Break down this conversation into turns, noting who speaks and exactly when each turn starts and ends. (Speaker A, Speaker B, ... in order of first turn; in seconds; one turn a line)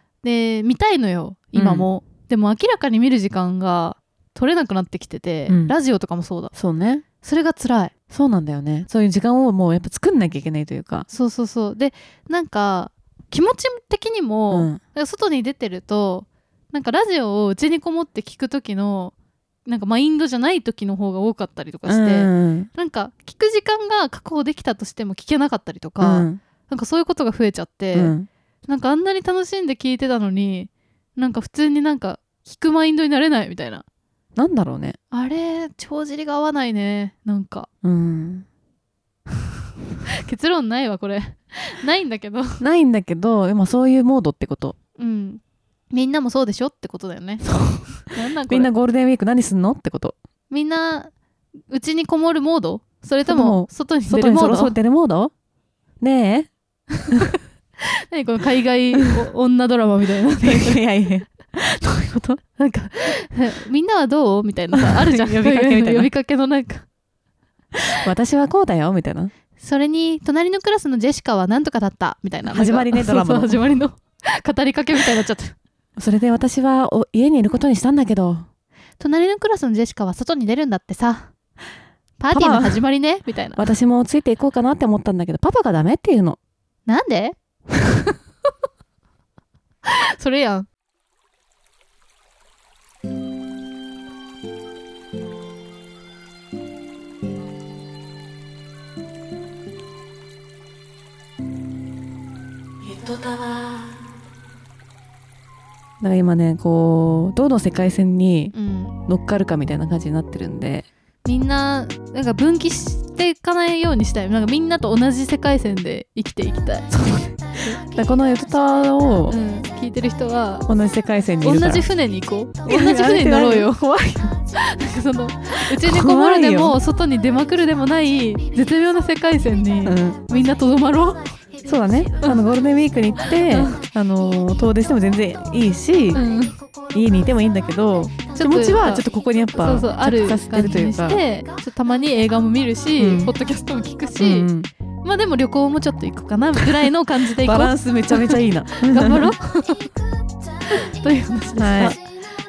Speaker A: 0.2-6.5
Speaker B: 1.5-1.9
Speaker B: 5.5-5.7
Speaker B: 6.5-7.0
Speaker A: 7.2-7.9
Speaker B: 8.1-11.1
Speaker A: 11.1-19.1
Speaker B: 14.5-14.8
Speaker A: 19.6-28.1
Speaker B: 21.9-22.7
Speaker B: 26.0-26.4
Speaker B: 27.9-28.3
Speaker A: 28.6-33.8
Speaker B: 34.4-35.0
Speaker A: 35.1-37.7
Speaker B: 37.8-38.5
Speaker A: 40.2-42.6
Speaker B: 42.6-44.7
Speaker A: 45.0-47.5
Speaker A: 48.0-48.7
Speaker B: 48.5-50.1
Speaker A: 50.5-51.1
Speaker A: 51.7-54.7
Speaker B: 53.2-55.3
Speaker B: 56.0-56.5
Speaker B: 57.1-57.3
Speaker A: 57.8-60.8
Speaker B: 60.4-62.4
Speaker A: 62.4-66.8
Speaker B: 64.8-66.1
Speaker B: 68.0-69.3
Speaker A: 69.6-75.5
Speaker B: 72.4-73.6
Speaker B: 76.0-78.5
Speaker A: 79.0-81.3
Speaker A: 82.2-83.7
Speaker B: 82.3-82.8
Speaker B: 83.6-86.4
Speaker A: 86.9-87.4
Speaker A: 89.8-90.7
Speaker B: 102.9-103.5
Speaker B: 106.0-108.5
Speaker A: 108.5-109.0
Speaker B: 109.1-110.9
Speaker A: 111.2-117.8
Speaker B: 117.8-119.3
Speaker A: 119.3-120.7
Speaker B: 120.7-121.9
Speaker A: 121.4-124.0
Speaker B: 122.7-124.3
Speaker A: 124.5-131.3
Speaker B: 125.8-126.8
Speaker B: 129.8-130.2
Speaker B: 131.6-136.2
Speaker A: 133.5-133.8
Speaker A: 136.1-136.6
Speaker B: 136.9-141.2
Speaker A: 138.3-139.0
Speaker A: 139.6-144.5
Speaker B: 143.0-143.3
Speaker B: 144.2-144.7
Speaker A: 145.0-149.9
Speaker B: 147.2-149.3
Speaker A: 150.7-152.0
Speaker B: 151.6-152.0